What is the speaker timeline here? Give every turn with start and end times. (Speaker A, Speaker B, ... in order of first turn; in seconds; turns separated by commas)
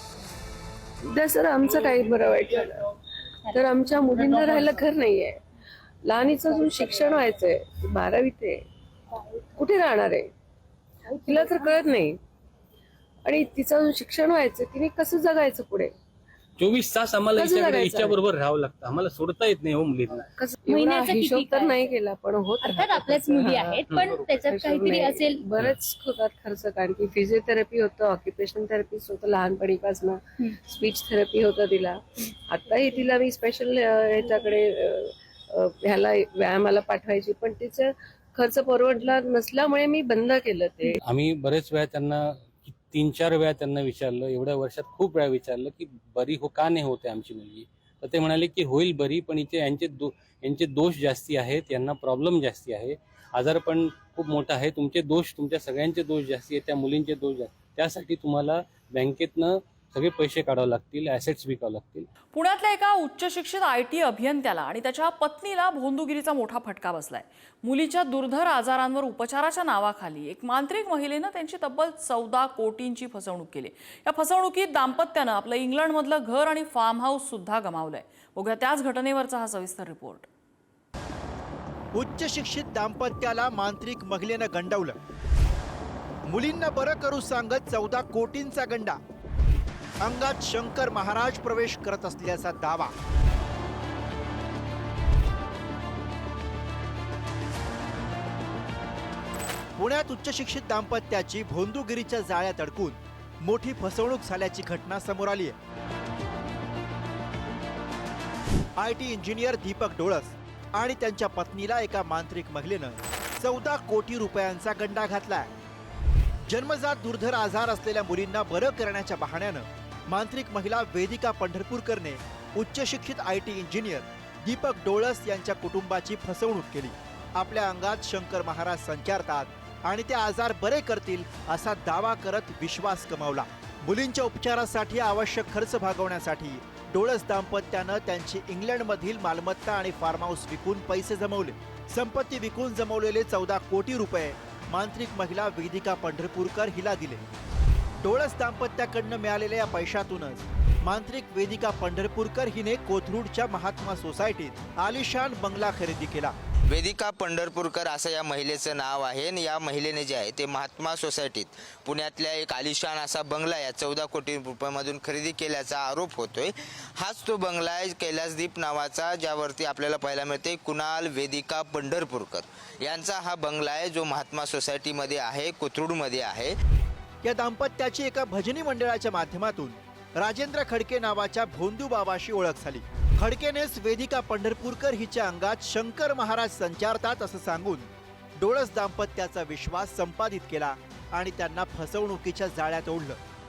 Speaker A: 1.1-2.9, Speaker A: 3.5-5.4, Speaker B: 4.2-5.0, Speaker A: 6.0-8.6, Speaker B: 6.5-7.1, Speaker A: 9.5-10.3, Speaker B: 11.1-12.0, Speaker A: 11.3-12.2, Speaker A: 13.2-15.9, Speaker C: 16.6-20.3, Speaker A: 17.4-18.1, Speaker A: 20.4-23.7, Speaker B: 20.6-22.0, Speaker B: 22.6-25.7, Speaker C: 23.9-24.2, Speaker A: 24.5-41.0, Speaker C: 41.0-62.1, Speaker D: 62.3-80.3, Speaker E: 81.9-85.0, Speaker E: 86.3-89.0, Speaker E: 90.0-92.9, Speaker E: 99.8-105.5, Speaker E: 108.8-115.5, Speaker E: 116.5-147.2, Speaker E: 148.0-156.3, Speaker F: 156.7-176.6, Speaker E: 177.2-193.2